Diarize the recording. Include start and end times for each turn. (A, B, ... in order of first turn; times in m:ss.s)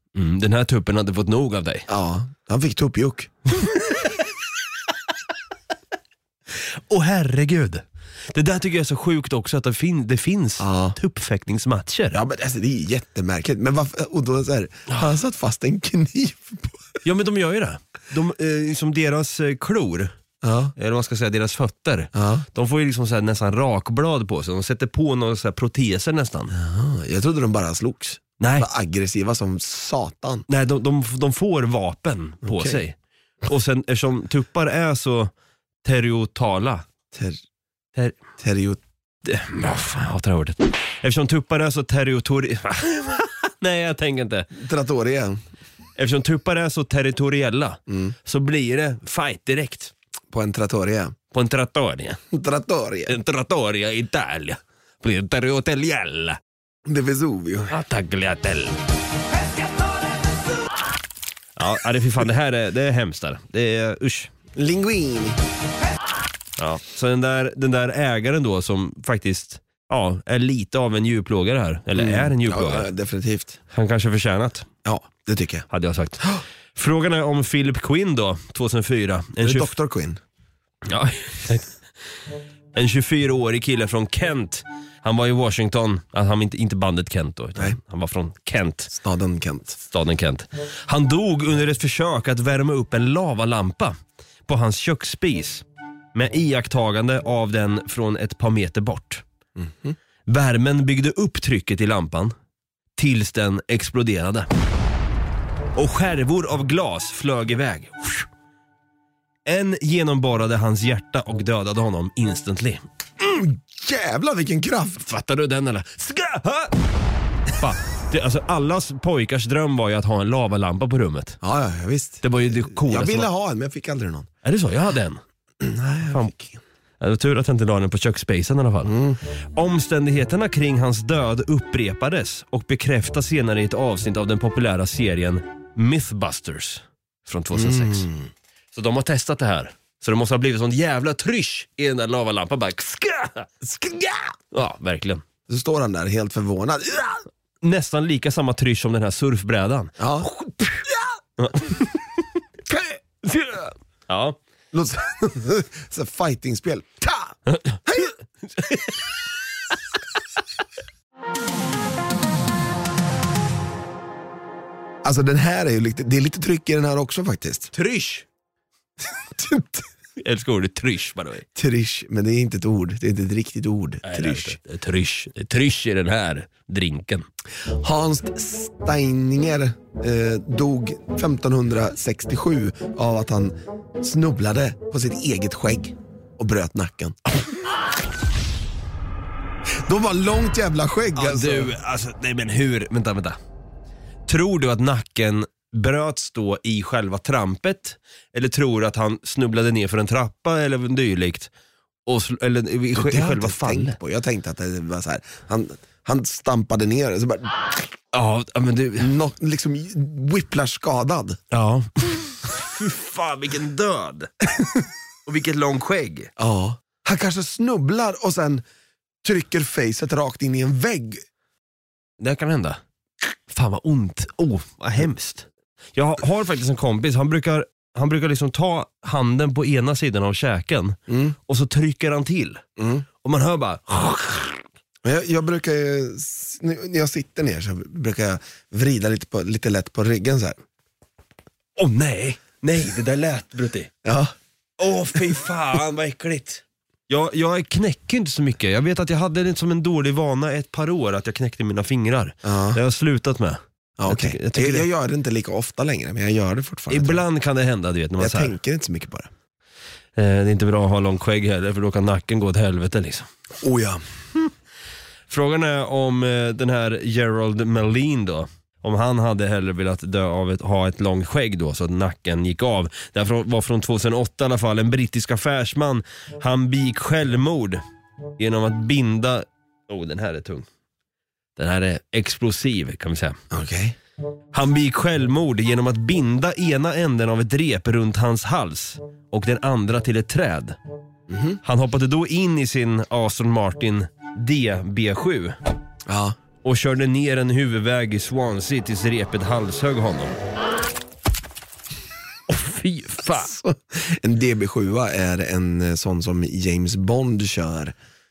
0:00.2-0:01.9 A
0:01.9-0:03.7 B
0:06.6-0:12.2 A
0:10.6-0:11.0 B
0:12.1-0:16.8 B
0:17.0-0:20.1 A
0:20.4-0:20.7 B
0:20.8-0:26.5 A
0:22.1-0:22.5 B
0:26.5-0:30.5 B
0:28.4-0:28.7 A
0:30.5-0:35.3 A
0:32.4-0:32.8 B
0:35.8-0:36.8 A
0:37.1-0:37.4 B
0:38.4-0:38.8 B
0:39.2-0:44.5 A
0:44.5-0:45.4 B
0:46.0-0:49.9 A
0:47.9-0:48.2 B
0:50.3-0:51.2 B
0:51.3-0:52.2 A
0:52.3-0:53.1 B
0:53.1-0:56.4 A
0:56.8-0:57.8 B
0:57.7-0:58.8 A
1:01.6-1:04.3 A
1:04.6-1:05.4 B
1:06.6-1:12.9 A
1:12.0-1:13.6 B
1:13.7-1:14.7 A
1:14.8-1:15.7 B
1:15.7-1:19.7 A
1:19.4-1:20.2 B
1:20.9-1:21.7 A
1:22.7-1:28.9 A
1:28.9-1:29.8 B
1:29.8-1:34.0 A
1:34.5-1:39.2 A
1:39.6-1:40.0 B
1:40.3-1:42.3 A
1:43.0-1:44.5 A
1:45.8-1:48.3 A
1:49.5-1:52.8 A
1:53.2-1:55.0 B
1:55.0-1:56.8 A
1:57.5-2:01.4 A
2:01.4-2:04.3 B
2:02.2-2:03.3 A
2:04.4-2:05.2 A
2:05.6-2:06.6 B
2:07.0-2:09.0 A
2:08.8-2:09.2 B
2:09.5-2:18.1 A
2:17.5-2:18.3 B
2:18.7-2:23.5 A
2:23.6-2:24.4 B
2:24.5-2:25.2 A
2:25.5-2:27.3 B
2:27.6-2:30.8 A
2:30.0-2:30.3 B
2:31.4-2:32.0 A
2:32.7-2:33.7 B
2:34.1-2:34.4 A
2:34.7-2:38.1 B
2:37.5-2:38.0 A
2:38.6-2:38.8 A
2:45.0-2:47.7 B
2:47.7-2:48.3 A
2:49.1-2:49.9 B
2:50.2-2:51.4 A
2:51.6-2:54.6 B
2:54.0-2:57.3 A
2:57.7-3:07.2 B
3:09.8-3:11.7 B
3:11.2-3:13.4 A
3:14.3-3:21.5 A
3:22.1-3:24.0 A
3:22.9-3:27.7 B
3:28.1-3:29.1 A
3:29.0-3:31.4 B
3:31.5-3:34.3 A
3:34.6-3:34.8 B
3:35.3-3:36.3 A
3:36.4-3:38.6 B
3:39.2-3:41.2 B
3:42.2-3:42.8 A
3:43.5-3:52.6 A
3:51.1-3:51.4 B
3:52.8-3:53.0 B
3:53.2-3:54.6 A
3:55.0-4:00.6 B
4:01.8-4:03.9 A
4:04.0-4:04.3 B
4:04.8-4:14.9 A
4:12.4-4:12.8 B
4:14.0-4:17.2 B
4:16.9-4:18.6 A
4:18.2-4:19.3 B
4:20.2-4:23.3 A
4:23.6-4:24.0 B
4:25.3-4:37.8 A
4:38.4-4:40.7 A
4:41.6-4:43.4 A
4:43.5-4:44.0 B
4:44.5-4:50.8 A
4:51.3-4:51.6 B
4:51.6-4:55.6 A
4:56.1-4:56.4 B
4:56.6-5:00.4 A
5:02.5-5:03.5 A
5:03.3-5:08.0 B